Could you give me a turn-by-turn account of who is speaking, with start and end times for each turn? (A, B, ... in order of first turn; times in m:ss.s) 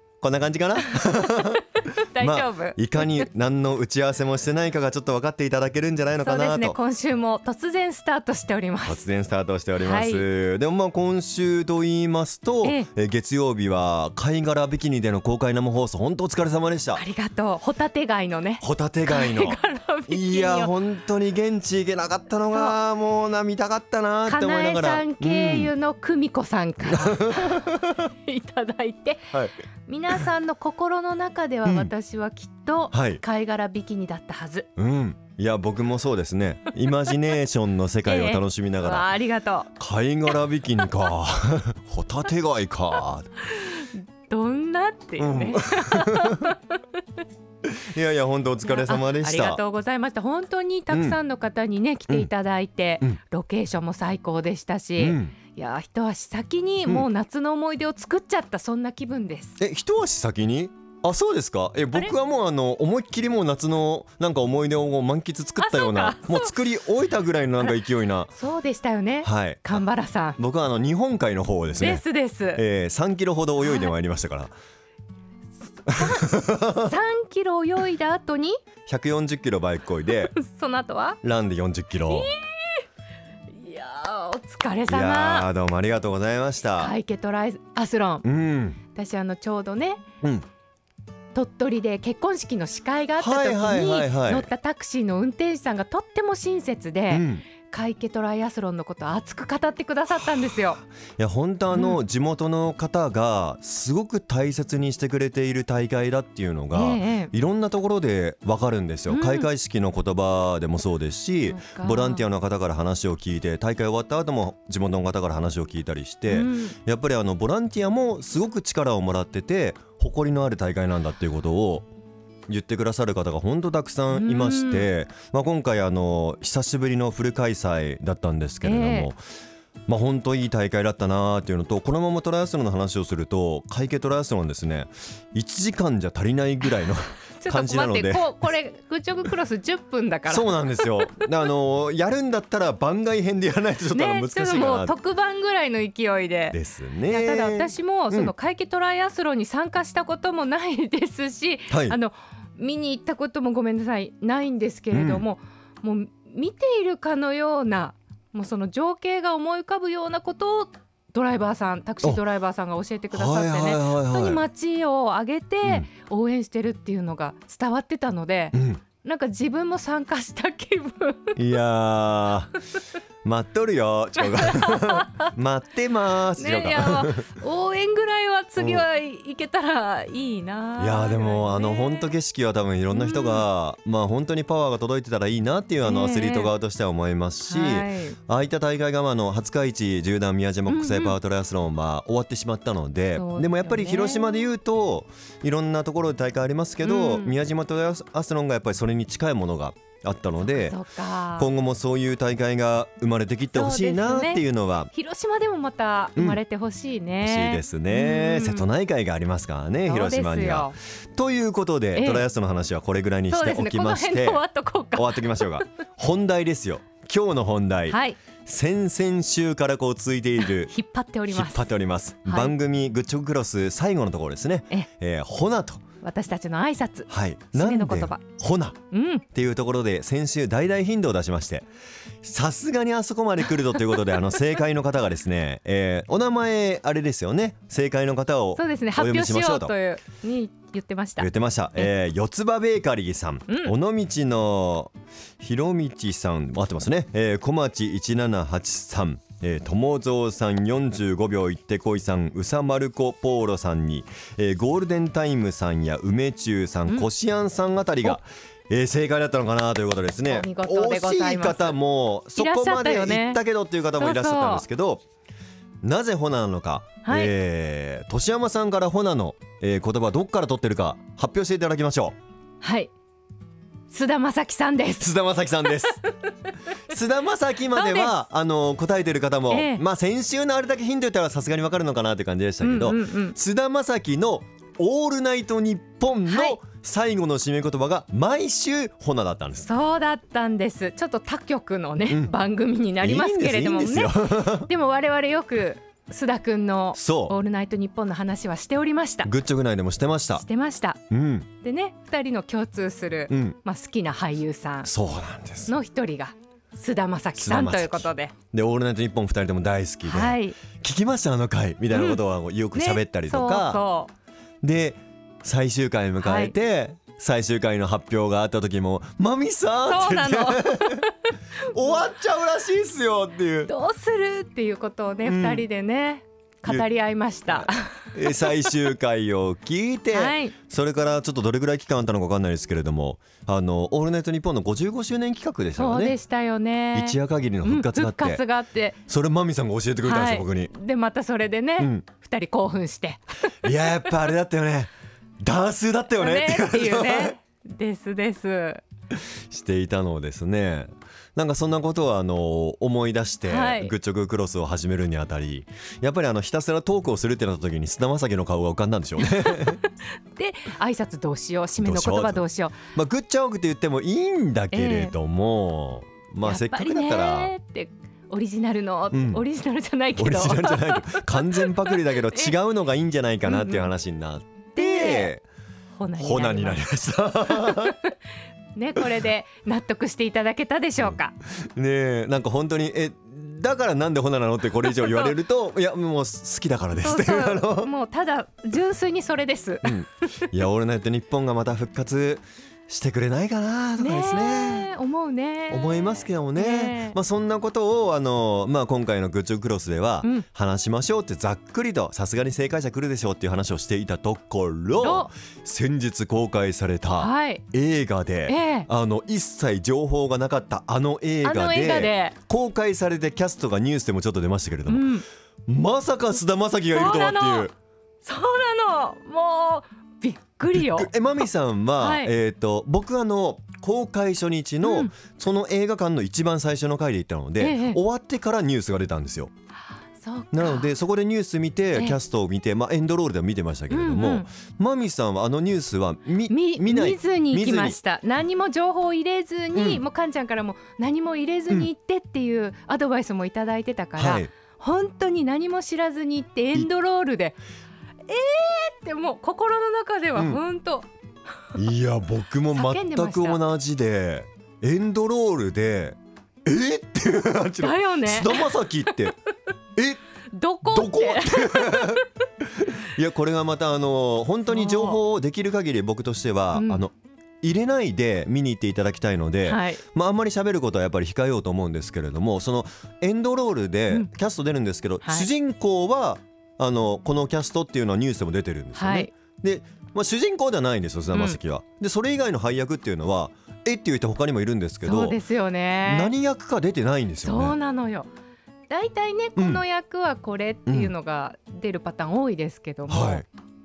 0:00.2-0:06.8 A
0:02.1-0:03.3 B
0:06.2-0:09.0 B
0:08.8-0:17.0 A
0:09.8-0:10.2 B
0:12.6-0:12.9 B
0:17.0-0:20.7 B
0:18.6-0:25.7 A
0:24.3-0:34.7 B
0:26.8-0:28.0 A
0:31.7-0:31.9 A
0:32.9-0:33.2 A
0:34.8-0:39.1 A
0:36.8-0:37.4 B
0:38.0-0:39.7 B
0:39.8-0:43.3 A
0:43.4-0:47.0 B
0:45.2-0:46.5 A
0:47.6-0:49.6 A
0:48.7-0:59.6 B
0:50.9-0:51.2 A
0:55.0-0:55.4 A
0:59.6-1:08.3 A
1:05.6-1:06.5 B
1:08.4-1:10.4 B
1:09.2-1:09.8 A
1:10.4-1:12.0 A
1:11.8-1:12.6 B
1:12.6-1:14.5 A
1:13.6-1:13.9 B
1:15.9-1:18.6 B
1:15.9-1:16.9 A
1:18.9-1:20.4 A
1:20.1-1:21.2 B
1:21.2-1:22.3 A
1:22.1-1:22.8 B
1:23.5-1:25.5 B
1:24.9-1:27.0 A
1:26.8-1:28.2 B
1:28.2-1:28.8 A
1:28.9-1:30.0 B
1:31.3-1:40.8 B
1:33.2-1:34.5 A
1:37.1-1:37.5 A
1:40.4-2:01.9 A
1:41.7-1:42.0 B
1:46.7-1:47.3 B
1:49.1-1:49.5 B
1:51.5-1:52.3 B
1:56.3-1:56.8 B
2:02.5-2:09.2 A
2:04.1-2:04.9 B
2:08.6-2:09.1 B
2:09.9-2:18.3 A
2:17.4-2:21.3 B
2:20.3-2:24.9 A
2:23.9-2:26.6 B
2:26.5-2:28.3 A
2:27.1-2:51.4 B
2:31.7-2:32.0 A
2:34.9-2:35.2 A
2:43.1-2:44.4 A
2:45.6-2:45.9 A
2:48.5-2:48.8 A
2:51.4-2:52.5 A
2:53.2-2:57.3 A
2:54.2-2:55.3 B
2:56.4-3:02.2 B
2:58.6-2:58.9 A
3:00.8-3:20.8 A
3:02.9-3:03.4 B
3:05.8-3:06.5 B
3:07.5-3:08.2 B
3:10.7-3:11.2 B
3:13.2-3:14.5 B
3:16.8-3:17.4 B
3:20.5-3:21.5 B
3:21.4-3:24.9 A
3:23.5-3:28.7 B
3:27.2-3:34.4 A
3:29.8-3:30.8 B
3:32.0-3:32.3 B
3:33.3-3:35.6 B
3:34.9-3:40.7 A
3:37.9-3:38.2 B
3:40.6-3:41.6 B
3:41.3-3:45.8 A
3:42.3-3:42.5 B
3:46.0-3:48.2 B
3:47.1-3:48.8 A
3:48.9-3:49.2 B
3:49.3-3:51.7 A
3:52.2-3:59.8 A
3:58.6-4:01.9 B
4:01.2-4:25.0 A
4:03.5-4:03.8 B
4:20.3-4:21.8 B
4:22.4-4:23.4 B
4:24.0-4:24.6 B
4:25.8-4:32.2 A
4:27.0-4:27.3 B
4:32.6-4:32.9 B
4:33.9-4:35.9 B
4:35.0-4:36.1 A
4:36.9-4:49.7 A
4:37.7-4:38.2 B
4:39.5-4:39.8 B
4:42.6-4:43.4 B
4:46.3-4:46.6 B
4:49.6-4:59.3 B
4:53.0-4:54.7 A
4:56.9-4:57.4 A
4:59.2-5:00.4 A
5:00.4-5:01.0 B
5:01.1-5:01.5 A
5:01.6-5:04.9 B
5:03.3-5:03.6 A
5:04.8-5:05.8 A
5:05.7-5:08.3 B
5:07.4-5:13.8 A
5:10.0-5:10.6 B
5:11.9-5:12.2 B
5:12.7-5:14.1 B
5:14.6-5:21.1 A
5:16.2-5:16.5 B
5:19.9-5:21.2 B
5:21.7-5:23.7 A
5:23.7-5:28.8 B
5:25.2-5:25.7 A
5:27.5-5:36.2 A
5:30.1-5:30.6 B
5:35.8-5:39.0 B
5:36.9-5:38.4 A
5:39.1-5:40.7 A
5:40.0-5:43.7 B
5:41.8-5:42.1 A
5:43.6-5:44.9 A
5:45.4-5:47.3 A
5:46.2-5:48.8 B
5:49.1-5:59.8 A
5:53.5-5:54.0 B
5:59.4-5:59.8 B
6:00.4-6:02.8 B
6:01.8-6:07.5 A
6:04.7-6:05.2 B
6:06.4-6:12.6 B
6:09.1-6:09.4 A
6:10.2-6:15.4 A
6:13.5-6:13.9 B
6:14.8-6:15.3 B
6:16.0-6:16.9 B
6:16.2-6:18.0 A
6:17.5-6:18.1 B
6:18.8-6:21.4 B
6:21.0-6:27.9 A
6:24.8-6:25.4 B
6:27.0-6:30.5 B
6:29.8-6:34.9 A
6:34.0-6:37.2 B
6:35.7-6:55.1 A
6:45.0-6:45.3 B
6:47.1-6:47.6 B
6:48.5-6:48.9 B
6:51.4-6:52.4 B
6:54.9-6:55.3 B
6:55.7-6:57.7 A
6:56.9-6:57.7 B
6:58.2-7:01.1 B
7:00.7-7:09.5 A
7:02.0-7:02.3 B
7:04.8-7:05.1 B
7:07.6-7:08.0 B
7:10.2-7:10.9 B
7:10.5-7:18.0 A
7:12.0-7:12.2 B
7:13.9-7:14.5 B
7:16.5-7:27.6 B
7:19.7-7:20.0 A
7:24.2-7:24.5 A
7:28.3-7:31.1 B
7:30.4-7:30.6 A
7:31.8-7:39.4 A
7:32.7-7:33.6 B
7:37.8-7:39.3 B
7:40.0-7:40.2 A
7:40.5-7:42.3 B
7:40.8-7:42.2 A
7:42.8-8:05.4 A
7:44.7-7:45.2 B
7:46.7-7:47.0 B
7:49.6-7:50.0 B
7:55.2-7:55.5 B
7:59.0-7:59.3 B
8:01.3-8:01.6 B
8:05.0-8:06.3 B
8:06.0-8:07.8 A
8:07.4-8:08.3 B
8:08.9-8:13.4 B
8:09.6-8:09.8 A
8:10.9-8:11.1 A
8:13.1-8:13.4 A